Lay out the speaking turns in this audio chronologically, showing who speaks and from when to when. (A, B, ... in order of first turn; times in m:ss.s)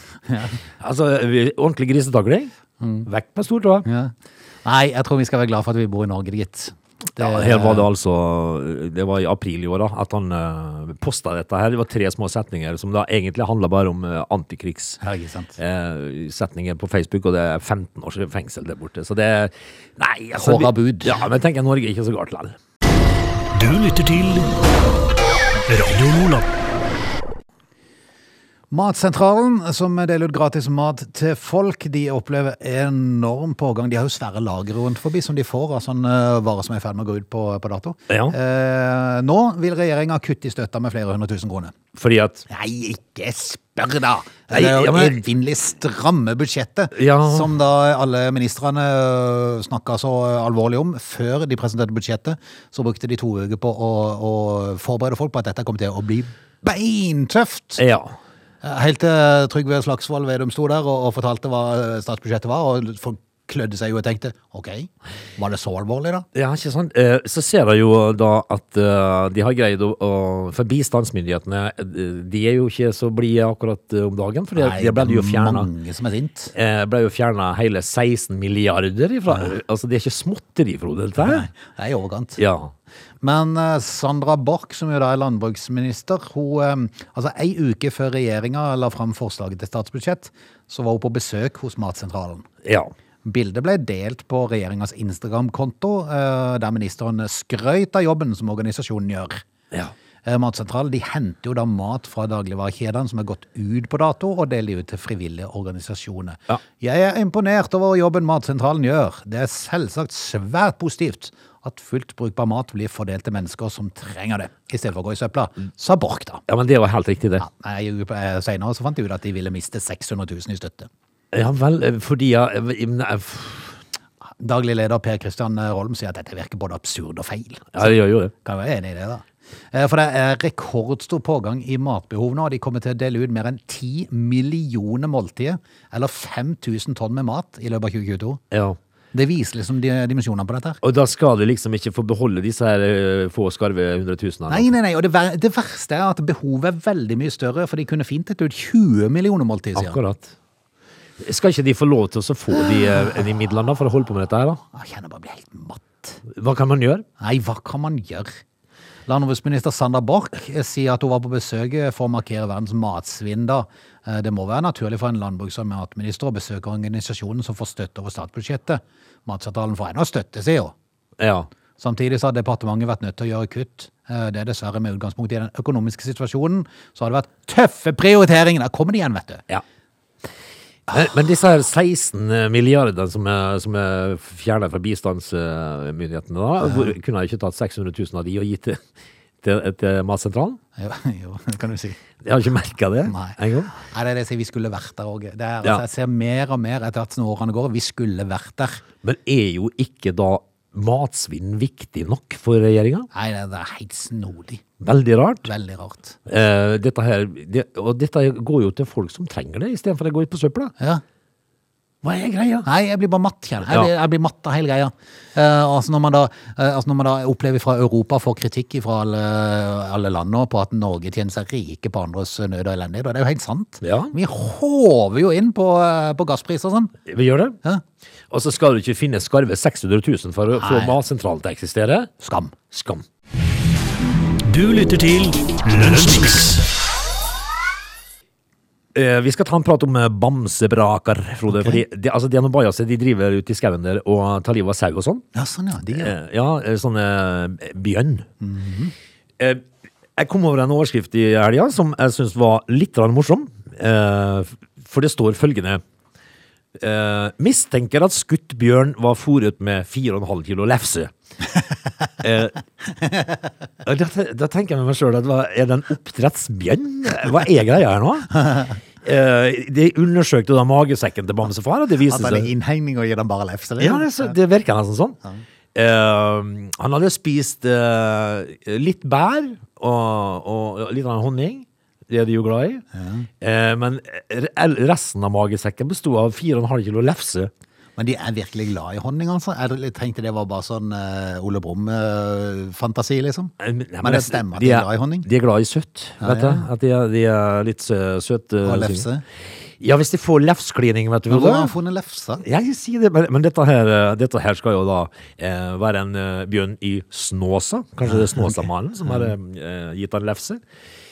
0:00.3-0:00.6 A
0:00.8-0:02.5 B
0:02.8-0:03.1 A
0:03.0-0:03.9 B
0:03.9-0:07.9 A
0:07.2-0:15.0 B
0:15.0-0:15.6 A
0:15.6-0:22.6 B
0:20.3-0:21.2 A
0:23.5-0:24.5 C
0:25.7-0:26.5 C
0:28.7-0:41.8 A
0:38.1-0:38.4 B
0:42.0-0:42.4 B
0:42.5-0:57.8 A
0:44.5-0:45.3 B
0:46.9-0:47.5 B
0:57.8-0:58.2 B
0:58.6-1:06.3 A
1:06.4-1:15.7 B
1:14.6-1:16.5 A
1:16.5-1:21.5 B
1:21.2-1:22.4 A
1:22.4-1:22.7 B
1:23.2-1:32.5 A
1:32.6-1:32.9 B
1:33.2-1:39.5 A
1:40.2-1:56.4 A
1:56.5-1:57.5 B
1:57.4-2:00.9 A
2:01.3-2:03.8 B
2:04.4-2:18.4 A
2:07.7-2:08.3 B
2:18.5-2:18.8 B
2:19.1-2:20.8 A
2:20.8-2:24.7 B
2:24.5-2:30.0 A
2:29.8-2:30.3 B
2:31.2-2:34.6 B
2:34.7-2:36.2 A
2:36.3-2:37.0 B
2:37.2-2:38.4 A
2:39.1-2:50.7 A
2:51.2-2:51.5 B
2:51.8-2:59.4 A
3:00.9-3:08.8 B
3:06.6-3:06.9 A
3:09.4-3:10.6 B
3:10.8-3:12.0 A
3:12.2-3:13.7 B
3:13.1-3:18.8 A
3:19.0-3:23.1 B
3:23.1-3:24.6 A
3:24.8-3:25.5 B
3:25.4-3:26.2 A
3:26.3-3:30.7 B
3:32.0-3:32.7 B
3:32.7-3:47.0 A
3:43.8-3:44.2 B
3:47.1-3:47.6 B
3:48.3-3:52.1 B
3:50.6-3:51.0 A
3:52.2-3:52.6 A
3:52.7-3:53.1 B
3:54.4-3:56.7 C
3:59.0-4:05.2 B
4:01.5-4:01.8 A
4:05.3-4:06.2 A
4:06.0-4:08.3 B
4:08.4-4:08.9 A
4:09.4-4:09.6 B
4:10.2-4:15.8 B
4:16.8-4:21.1 B
4:22.2-4:22.6 B
4:23.0-4:23.4 A
4:23.8-4:32.5 B
4:32.1-4:34.4 A
4:33.8-4:35.2 B
4:35.7-4:42.8 B
4:42.9-4:43.3 A
4:43.4-4:47.5 B
4:48.0-4:55.3 A
4:53.6-4:59.1 B
4:56.2-4:56.7 A
4:58.6-4:59.2 A
4:59.8-5:01.7 B
5:01.3-5:02.4 A
5:02.4-5:10.6 B
5:08.1-5:09.3 A